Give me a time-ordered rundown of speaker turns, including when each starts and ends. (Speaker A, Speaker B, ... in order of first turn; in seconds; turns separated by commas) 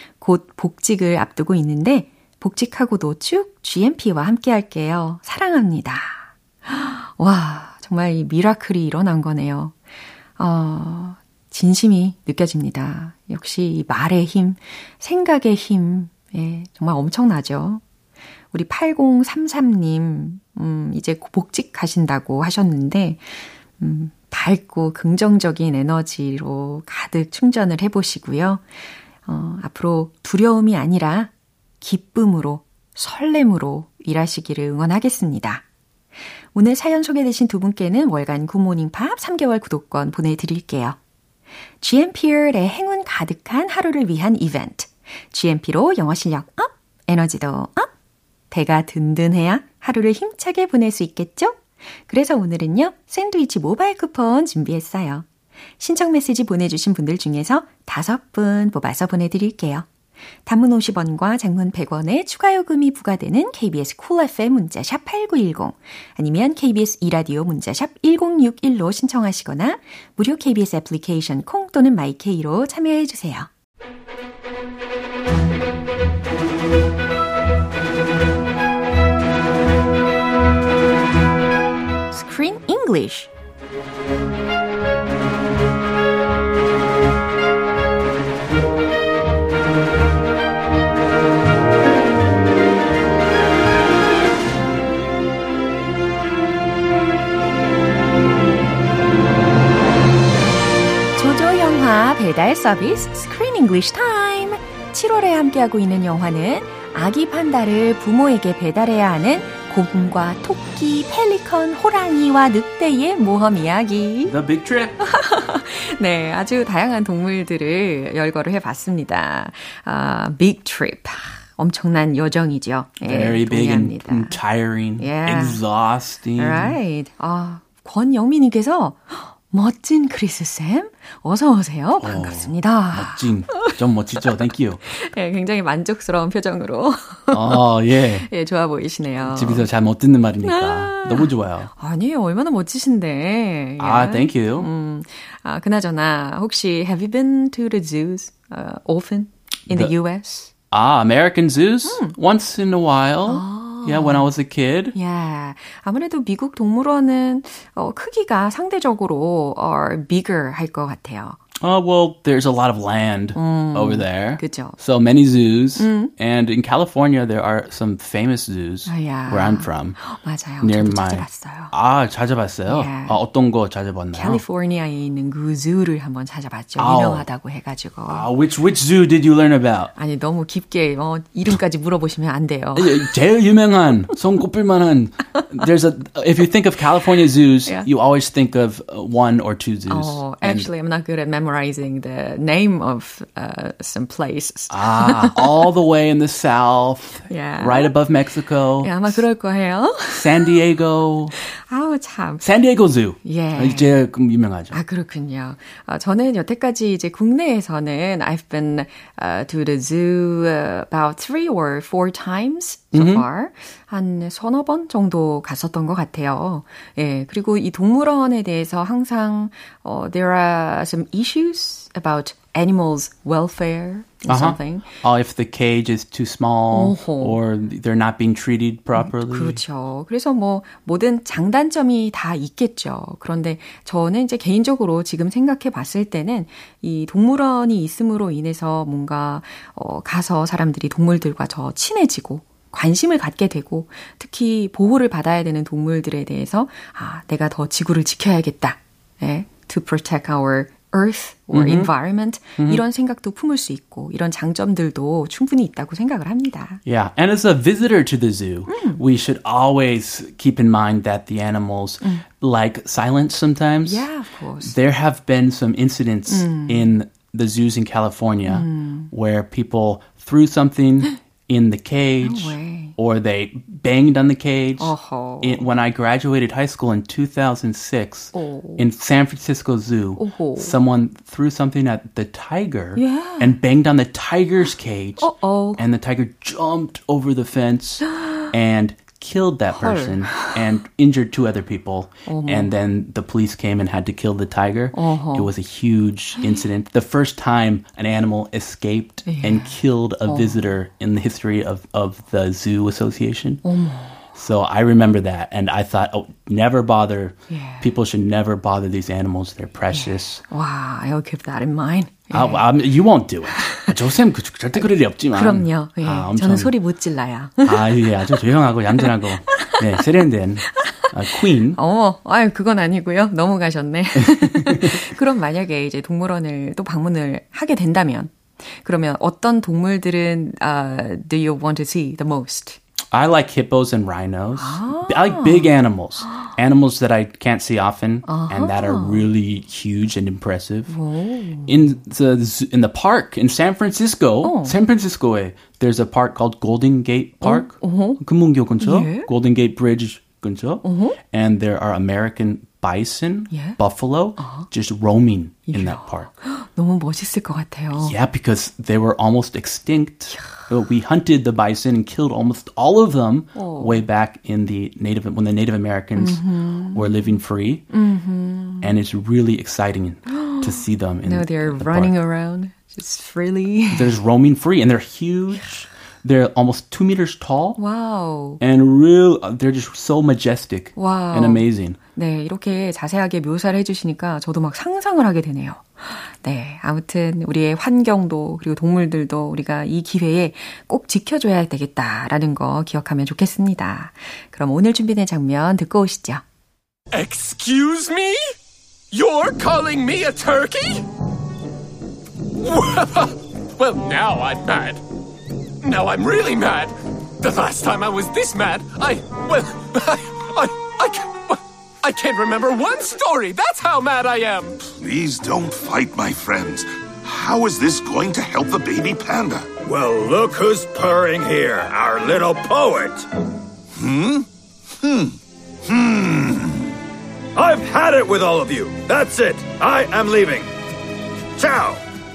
Speaker A: 0.2-9.8, Speaker A: 10.4-17.8, Speaker A: 18.5-28.7, Speaker A: 29.2-35.6, Speaker A: 36.5-41.0, Speaker A: 41.8-47.9, Speaker A: 48.5-55.3, Speaker A: 55.8-59.9, Speaker A: 60.5-73.5, Speaker A: 82.1-83.3, Speaker A: 101.2-114.3, Speaker B: 114.2-115.0, Speaker A: 115.0-124.3, Speaker B: 123.0-126.8, Speaker A: 125.0-125.6, Speaker A: 126.4-137.6, Speaker B: 132.0-134.8, Speaker B: 137.3-138.3, Speaker A: 138.2-139.7, Speaker B: 139.2-141.7, Speaker A: 140.4-150.5, Speaker B: 143.8-144.7, Speaker B: 150.7-154.9, Speaker A: 151.8-152.1, Speaker A: 153.2-154.3, Speaker A: 154.9-161.4, Speaker B: 161.6-170.0, Speaker A: 163.3-164.8, Speaker A: 165.8-166.1, Speaker A: 168.8-171.7, Speaker B: 170.6-174.4, Speaker A: 172.7-173.2, Speaker A: 174.1-178.3, Speaker B: 176.8-177.2, Speaker B: 178.1-179.9, Speaker A: 180.0-183.1, Speaker B: 182.8-190.7, Speaker A: 189.9-195.5, Speaker B: 194.7-199.2, Speaker A: 197.3-197.9, Speaker A: 198.8-200.5, Speaker B: 200.1-201.3, Speaker A: 201.4-202.4, Speaker B: 202.4-204.8, Speaker A: 203.2-204.0, Speaker A: 204.7-224.9, Speaker B: 212.9-213.2, Speaker B: 224.3-229.6, Speaker A: 226.7-227.4, Speaker A: 228.9-256.8, Speaker B: 251.5-251.9, Speaker B: 252.6-252.8, Speaker B: 256.9-264.1, Speaker A: 258.7-259.0, Speaker A: 263.8-264.7, Speaker B: 264.6-303.6, Speaker A: 266.3-266.9, Speaker A: 268.4-269.1, Speaker A: 272.2-272.9, Speaker A: 274.8-275.7, Speaker A: 278.3-278.9, Speaker A: 280.2-280.7, Speaker A: 283.0-283.6, Speaker A: 285.2-285.8, Speaker A: 289.7-290.6, Speaker A: 292.3-292.7, Speaker A: 294.9-295.5, Speaker A: 299.2-300.6, Speaker A: 303.6-304.2, Speaker B: 304.3-310.4, Speaker A: 307.5-307.9, Speaker A: 309.9-312.6, Speaker B: 312.3-316.7, Speaker A: 313.5-313.9, Speaker A: 315.3-318.3, Speaker B: 317.6-321.8, Speaker A: 319.5-319.8, Speaker A: 320.8-321.1, Speaker A: 321.7-332.8, Speaker B: 324.1-325.0, Speaker B: 333.1-340.9, Speaker A: 334.6-335.7, Speaker A: 338.2-339.3, Speaker A: 340.9-341.8, Speaker B: 341.6-356.3, Speaker A: 344.4-344.7, Speaker A: 347.4-348.2, Speaker A: 348.8-349.3, Speaker A: 350.8-351.2, Speaker A: 353.5-353.8, Speaker A: 354.4-354.7, Speaker A: 355.7-358.1, Speaker B: 357.9-367.9, Speaker A: 363.5-364.0, Speaker A: 366.2-367.2, Speaker A: 367.9-368.9, Speaker B: 368.8-372.1, Speaker A: 370.3-374.1, Speaker B: 373.9-377.8, Speaker A: 377.8-378.6, Speaker B: 378.6-382.0, Speaker A: 380.9-396.4, Speaker C: 397.1-398.5, Speaker C: 399.1-401.0, Speaker C: 402.6-405.0, Speaker C: 405.8-414.8, Speaker D: 414.9-419.7, Speaker E: 419.8-423.3, Speaker D: 423.9-424.5, Speaker D: 425.0-426.9, Speaker E: 427.6-430.7, Speaker E: 431.6-432.0